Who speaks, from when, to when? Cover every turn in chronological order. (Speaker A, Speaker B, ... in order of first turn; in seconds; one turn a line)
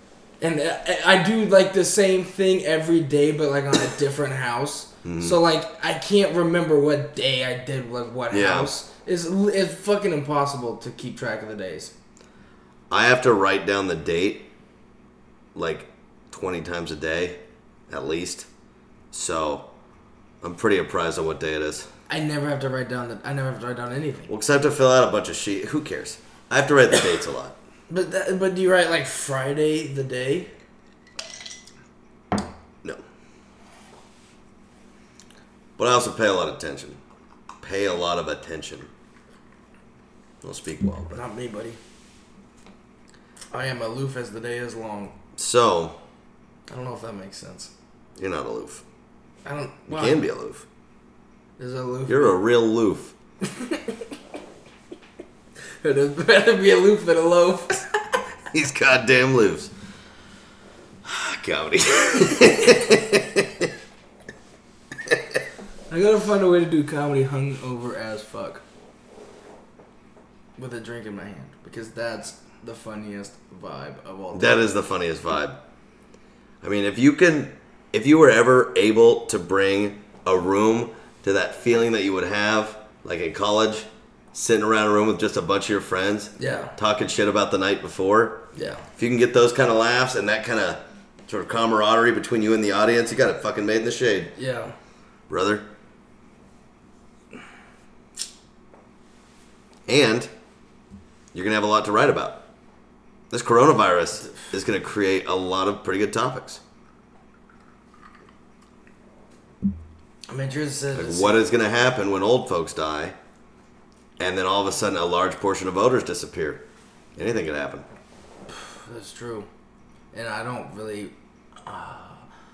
Speaker A: 0.4-11.9
Speaker B: 5.0-5.4
Speaker B: 8.3-8.7
Speaker B: 12.9-14.5
Speaker B: 15.6-18.5
Speaker B: 19.1-19.6
Speaker B: 20.4-21.9
Speaker A: 22.1-24.3
Speaker B: 24.3-27.6
Speaker A: 27.9-30.5
Speaker B: 35.8-37.0
Speaker B: 37.6-38.9
Speaker B: 40.4-41.2
Speaker A: 41.1-41.8
Speaker A: 43.5-45.1
Speaker B: 45.4-46.0
Speaker A: 46.7-47.7
Speaker B: 48.2-48.8
Speaker A: 49.4-50.2
Speaker B: 49.9-50.6
Speaker A: 51.6-52.4
Speaker B: 52.1-53.1
Speaker A: 53.4-54.0
Speaker A: 55.8-57.9
Speaker B: 58.5-59.7
Speaker B: 61.0-63.7
Speaker A: 65.9-68.6
Speaker A: 70.6-74.6
Speaker B: 74.3-75.6
Speaker B: 76.6-88.4
Speaker A: 86.4-86.7
Speaker A: 88.5-88.8
Speaker B: 89.0-94.3
Speaker A: 94.4-94.7
Speaker B: 95.3-95.7
Speaker B: 99.9-100.3
Speaker B: 101.3-102.4
Speaker B: 103.3-106.6
Speaker A: 110.3-111.5
Speaker B: 111.0-113.1
Speaker B: 114.2-116.6
Speaker B: 117.2-117.8
Speaker A: 118.5-119.5
Speaker A: 120.1-121.1
Speaker A: 121.6-122.3